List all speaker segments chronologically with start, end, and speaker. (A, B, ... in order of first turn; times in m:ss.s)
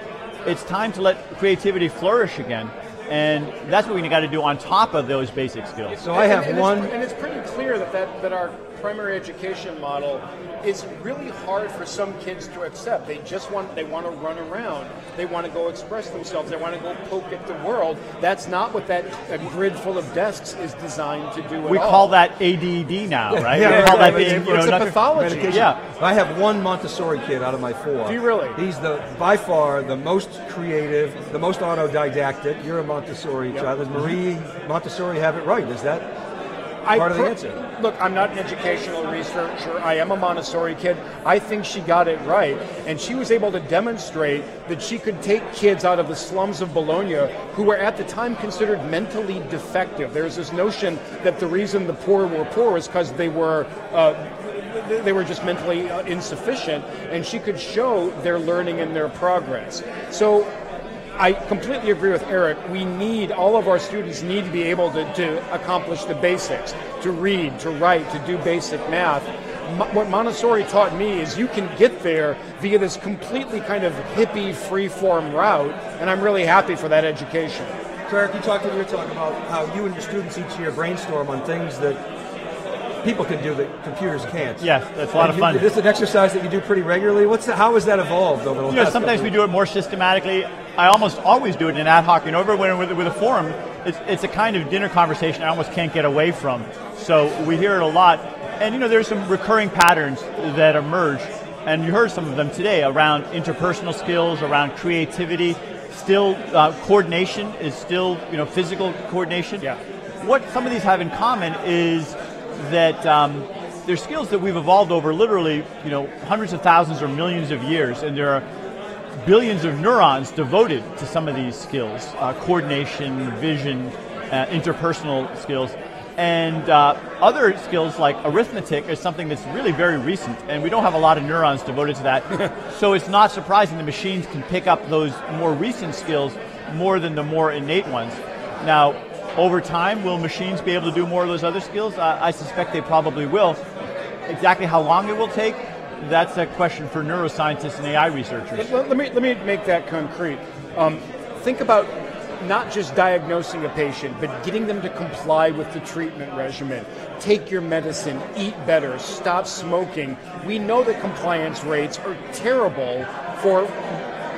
0:00.4-0:06.0 A
0:06.0-0:06.9 B
0:06.1-0:22.1 C
0:21.6-0:25.8 A
0:23.3-0:36.1 B
0:23.5-0:25.7 C
0:28.0-0:28.6 C
0:33.5-0:34.0 C
0:36.8-1:00.5 C
0:36.9-0:37.6 B
1:01.2-1:17.8 C
1:18.1-1:22.0 B
1:23.0-1:29.3 B
1:24.6-1:25.7 A
1:28.7-1:49.7 A
1:50.2-1:58.4 A
1:59.2-2:23.6 A
2:24.3-2:28.7 A
2:28.5-2:44.0 C